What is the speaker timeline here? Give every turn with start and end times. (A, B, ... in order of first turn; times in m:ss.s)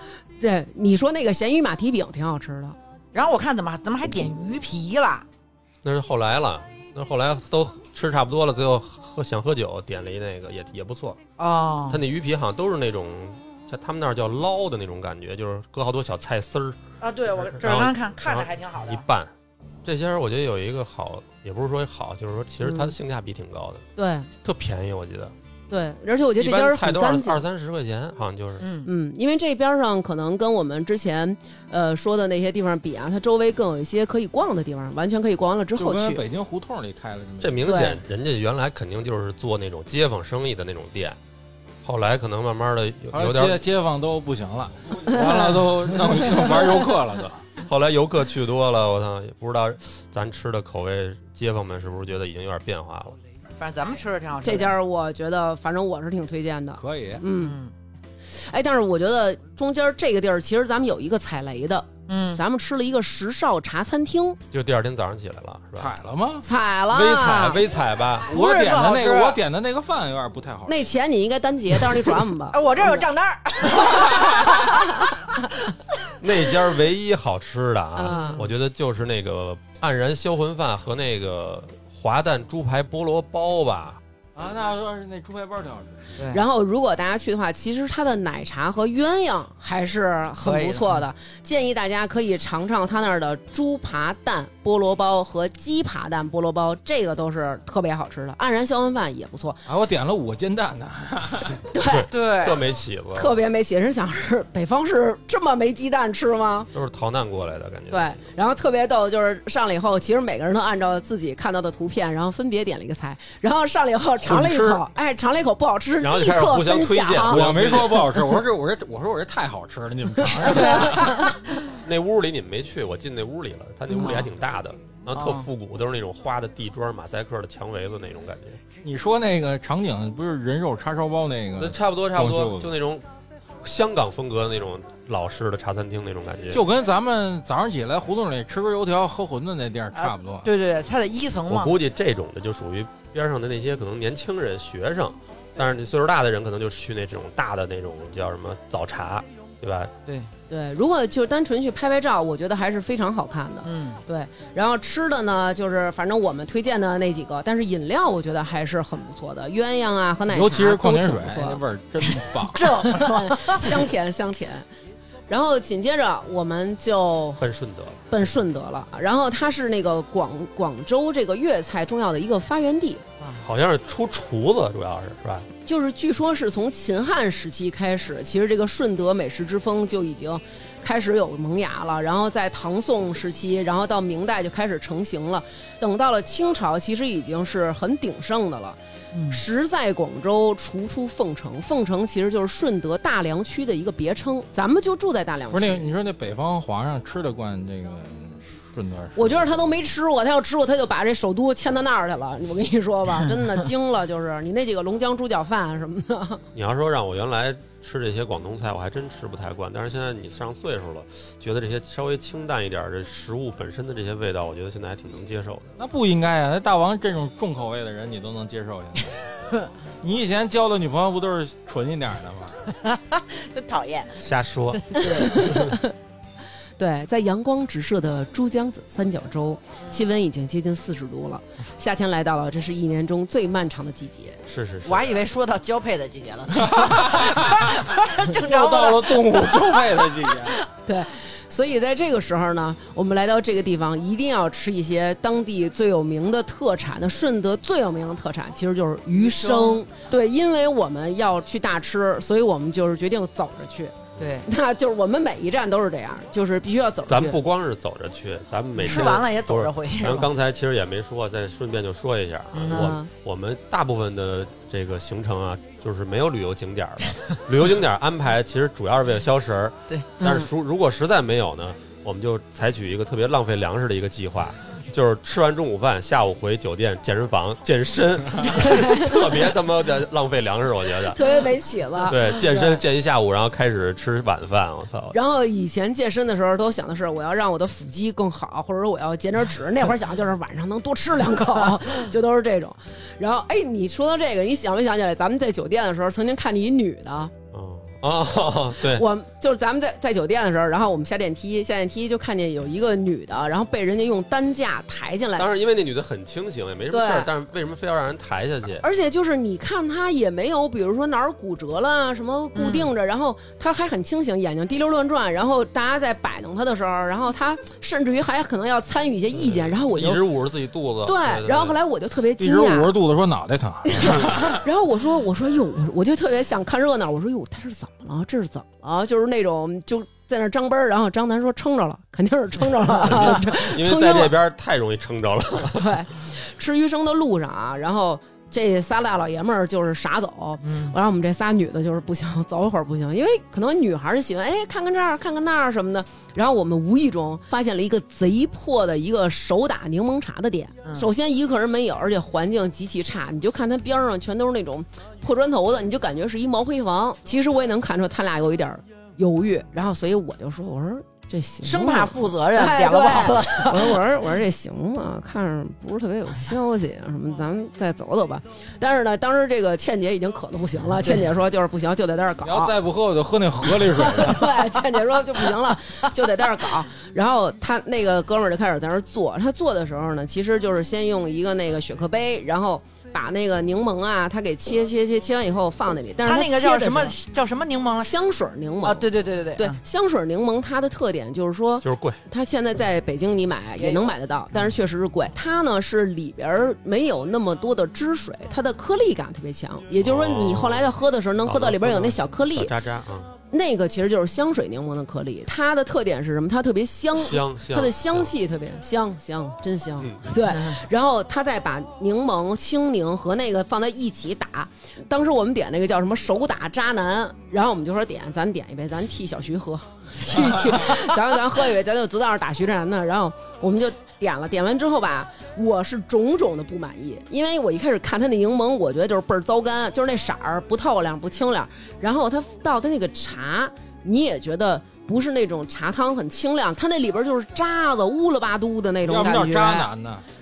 0:00.4-0:02.8 A
0:03.1-0:05.3 B
0:05.8-0:11.2 C
0:11.4-0:12.0 B
0:11.9-0:16.8 C
0:17.0-0:19.0 B
0:17.4-0:19.3 C
0:19.8-0:23.8 C
0:22.6-0:22.9 A
0:24.0-0:24.3 A
0:24.4-0:25.3 C
0:25.7-0:27.4 A
0:26.4-0:28.7 C
0:28.6-0:28.9 B
0:28.8-0:36.2 A
0:35.8-0:37.9 D
0:37.4-0:41.2 C
0:37.6-0:38.0 A
0:41.8-0:43.6 C
0:43.1-0:47.4 D
0:45.1-0:45.7 A
0:46.2-0:46.5 A
0:47.6-0:53.2 C
0:53.6-0:54.8 B
0:54.4-0:57.6 A
0:56.8-0:57.2 D
0:57.3-0:57.7 B
0:58.3-1:04.4 A
1:02.1-1:02.4 B
1:04.5-1:05.9 C
1:05.8-1:06.4 D
1:06.4-1:07.6 A
1:06.9-1:08.3 C
1:08.3-1:09.4 B
1:08.3-1:10.9 D
1:10.7-1:13.0 A
1:12.5-1:15.1 B
1:16.2-1:24.0 C
1:18.0-1:18.4 A
1:18.1-1:18.5 B
1:24.4-1:26.1 D
1:26.2-1:26.4 B
1:26.3-1:39.6 A
1:30.4-1:31.0 B
1:39.7-1:41.6 D
1:41.7-1:42.1 A
1:41.8-1:43.4 C
1:42.1-1:42.6 B
1:43.2-1:46.7 A
1:46.7-1:48.3 C
1:47.9-1:57.4 A
1:54.2-1:54.8 C
1:56.0-1:58.2 C
1:57.2-2:01.3 D
2:00.5-2:01.2 A
2:01.8-2:08.6 C
2:03.9-2:04.3 B
2:05.1-2:05.5 B
2:08.8-2:12.7 D
2:11.6-2:13.1 C
2:13.6-2:16.7 C
2:16.5-2:20.5 D
2:20.0-2:21.7 B
2:21.5-2:29.9 C
2:30.5-2:41.6 A
2:33.6-2:34.0 B
2:40.3-2:42.9 D
2:42.5-2:43.8 B
2:42.8-2:44.7 A
2:45.3-2:47.4 A
2:47.4-2:48.1 C
2:48.1-2:53.0 A
2:53.2-2:53.5 B
2:53.4-2:55.5 C
2:55.6-3:08.8 A
3:09.1-3:09.4 B
3:09.3-3:15.8 A
3:15.5-3:19.7 D
3:19.2-3:26.4 A
3:26.5-3:35.7 C
3:35.8-3:39.2 D
3:40.0-3:42.6 D
3:42.9-3:45.4 B
3:44.2-3:45.7 C
3:45.0-3:45.9 A
3:46.8-3:54.4 A
3:54.5-3:55.3 C
3:54.8-4:00.6 B
3:56.6-3:57.7 D
3:58.3-4:00.6 D
4:00.9-4:17.4 A
4:09.2-4:09.8 B
4:14.2-4:14.4 C
4:14.2-4:14.5 B
4:17.1-4:41.4 C
4:18.8-4:20.3 B
4:22.5-4:22.9 B
4:22.7-4:23.1 A
4:30.2-4:30.5 A
4:38.4-4:39.5 A
4:41.1-4:42.8 A
4:42.0-4:45.2 C
4:45.1-4:57.3 A
4:57.5-4:59.1 C
4:58.8-5:05.5 A
5:05.4-5:08.9 C
5:06.9-5:07.3 A
5:08.8-5:20.2 A
5:12.6-5:12.9 B
5:19.3-5:21.8 C
5:21.0-5:22.9 A
5:22.4-5:24.6 D
5:23.9-5:34.4 A
5:33.0-5:36.0 C
5:35.8-6:12.8 A
5:40.6-5:41.0 B
5:50.8-5:51.1 B
6:01.6-6:04.0 B
6:12.4-6:14.6 D
6:13.7-6:27.2 A
6:26.2-6:28.2 B
6:28.0-6:42.7 A
6:28.8-6:29.8 B
6:31.8-6:32.2 C
6:33.8-6:34.6 B
6:40.0-6:43.3 C
6:43.5-7:19.9 A
6:47.2-6:48.3 C
6:50.0-6:50.3 C
7:19.0-7:20.2 D